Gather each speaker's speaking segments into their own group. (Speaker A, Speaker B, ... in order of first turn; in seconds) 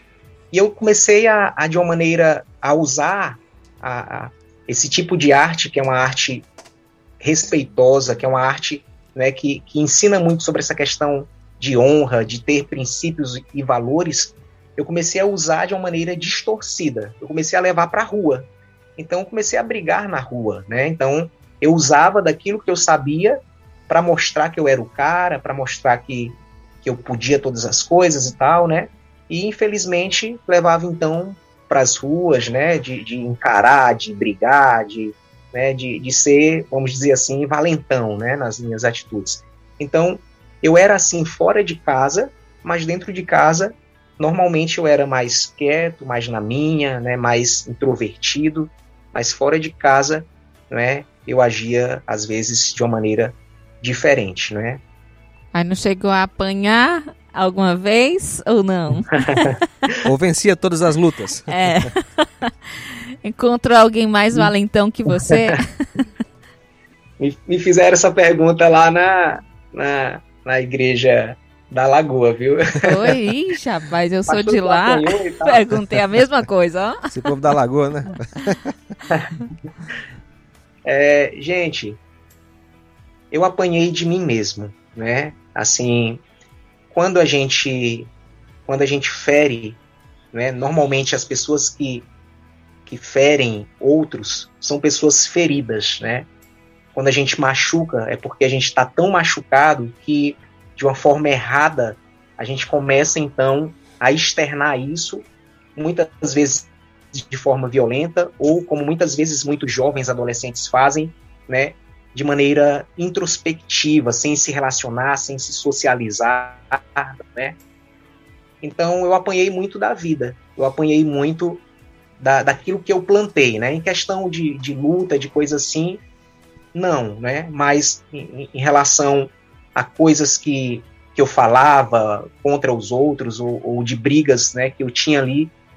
Speaker A: 0.5-6.5, 7.2-18.4, 19.0-54.8, 59.2-59.5, 67.2-73.2, 74.3-75.6, 80.8-82.0, 83.3-86.2, 86.9-88.1, 88.7-89.8, 90.3-92.1, 92.8-96.3, 96.9-117.6, 118.6-121.6, 122.2-126.0, 126.7-135.5
Speaker B: 55.5-59.6, 61.5-62.5, 63.2-65.8, 72.8-77.1
Speaker C: 60.0-61.5, 77.1-78.7